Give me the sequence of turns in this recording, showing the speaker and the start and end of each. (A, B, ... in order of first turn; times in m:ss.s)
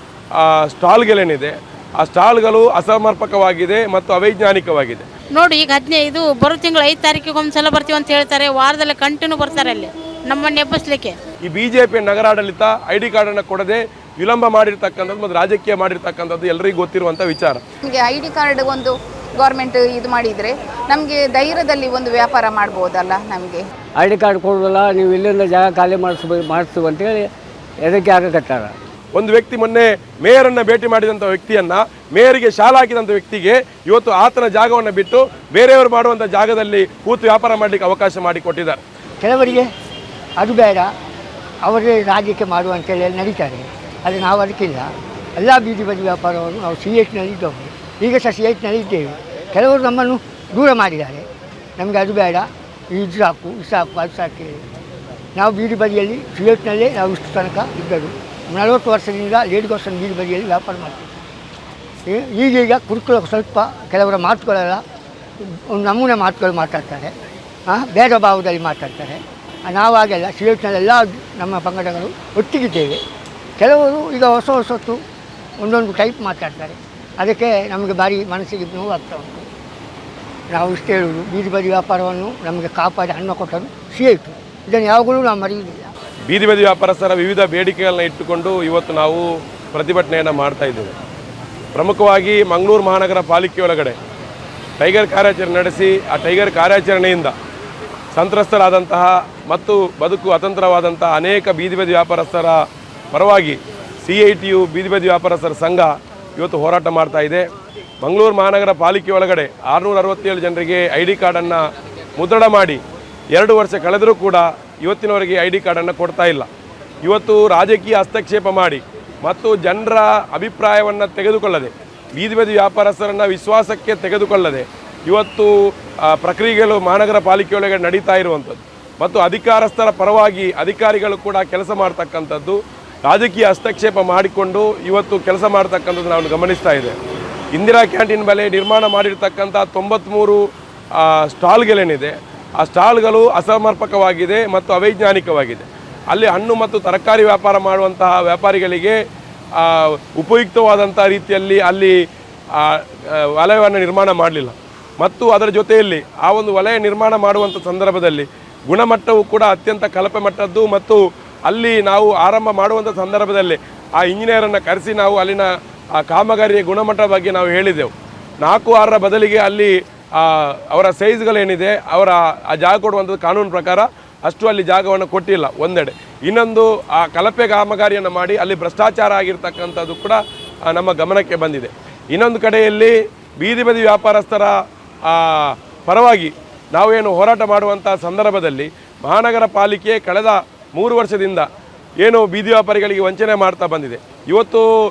0:00.4-0:05.0 A
0:05.4-0:11.1 B
0:11.4-0:17.6 A
0:17.8-0:23.6 C
0:24.0-0:27.3 D
0:27.8-0:28.7 D
0:29.1-0:38.8 A
0:39.2-0:39.7 E
0:40.4-0:40.9 E
0:41.6-0:51.2 E
0:51.8-0:54.6 E
0:55.3-1:01.0 E
1:02.0-1:04.8 E
1:05.4-1:07.1 E
1:07.7-1:13.0 E
1:13.6-1:15.0 E
1:15.6-1:19.4 E
1:20.5-1:25.8 E
1:26.3-1:30.9 A
1:31.7-1:34.0 A
1:34.8-1:37.3 A
1:38.1-1:42.6 A
1:43.1-1:47.5 A
1:48.0-1:51.6 A
1:52.2-1:52.8 A
1:53.3-1:56.5 A
1:57.0-2:17.0 A
2:17.5-2:20.4 A
2:20.9-2:29.0 A
2:29.6-2:31.9 A
2:32.6-3:11.5 A
3:12.0-3:14.7 A